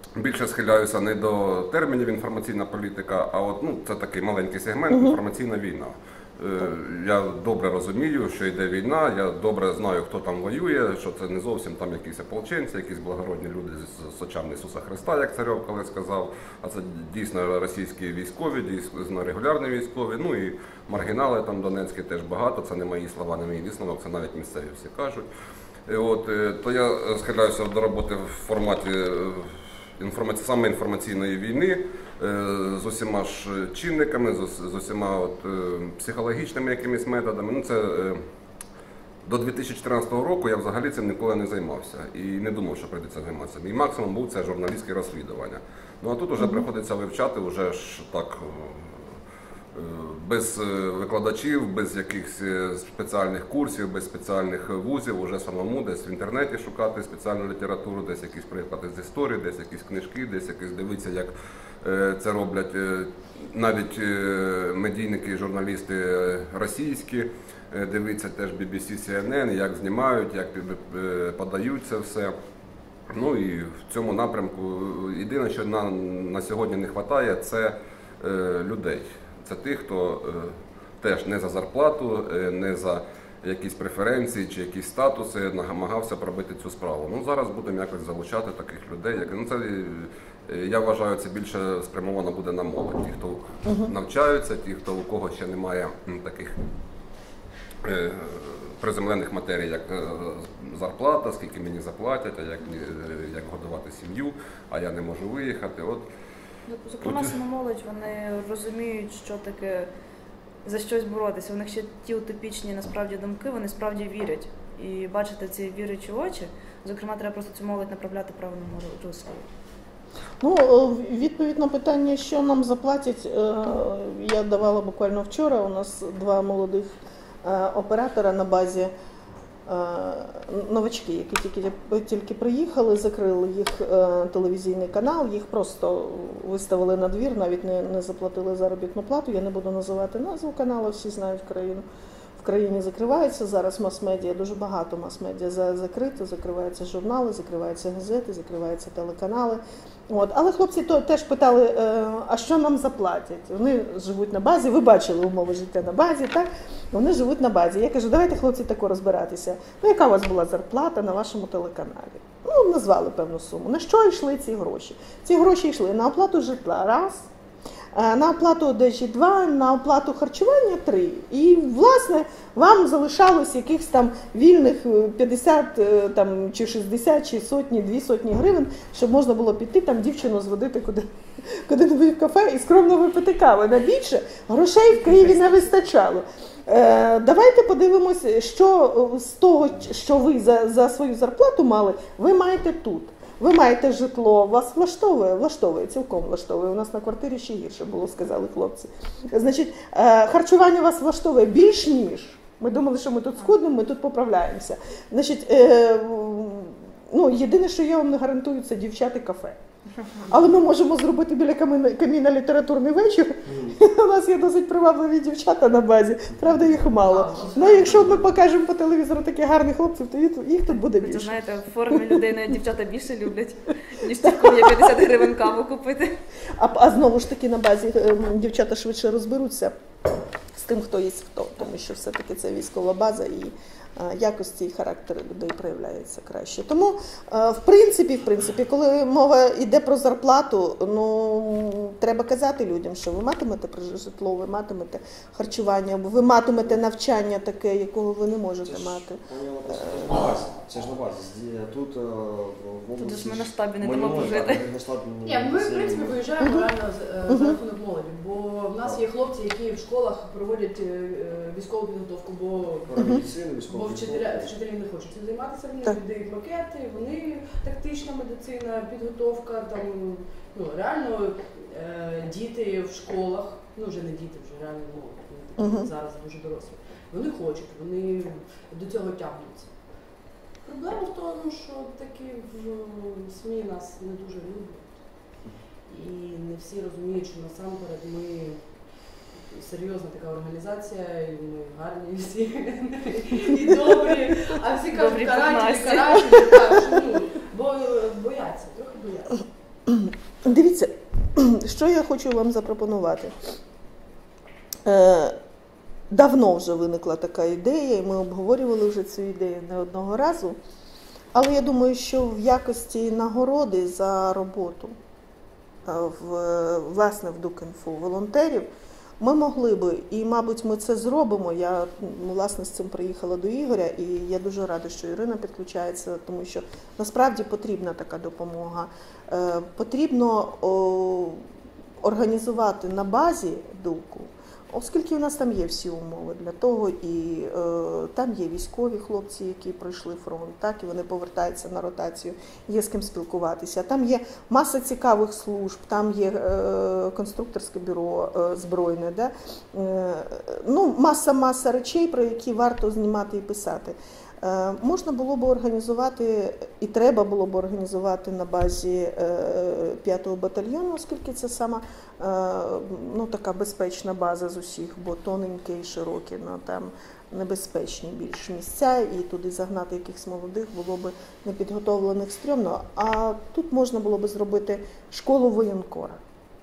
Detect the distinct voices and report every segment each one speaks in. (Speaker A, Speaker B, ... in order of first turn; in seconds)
Speaker A: 0.2-25.3, 25.9-38.2, 39.2-49.1, 49.7-72.3, 73.1-96.5, 97.8-106.1, 107.0-107.3
Speaker B: 4.9-5.2, 46.4-46.7, 93.7-93.9, 120.4-126.9, 127.4-128.9, 129.7-141.8, 142.4-167.3, 167.9-209.6, 210.3-221.3, 224.2-225.2, 226.6-229.7, 230.6-250.1, 257.3-257.6, 275.6-275.9, 299.9-303.3, 304.9-305.4, 306.1-310.6, 311.3-314.9, 315.9-318.7, 319.2-331.4, 332.0-376.2
Speaker C: 106.7-109.9, 110.7-119.5, 220.9-226.1, 253.0-254.6, 295.0-296.3
Speaker D: 184.9-185.8, 217.0-218.1, 255.2-263.1, 263.6-279.7, 280.6-284.9, 285.9-288.6, 289.5-299.4
Speaker E: 248.6-256.5, 258.8-259.1, 262.8-264.6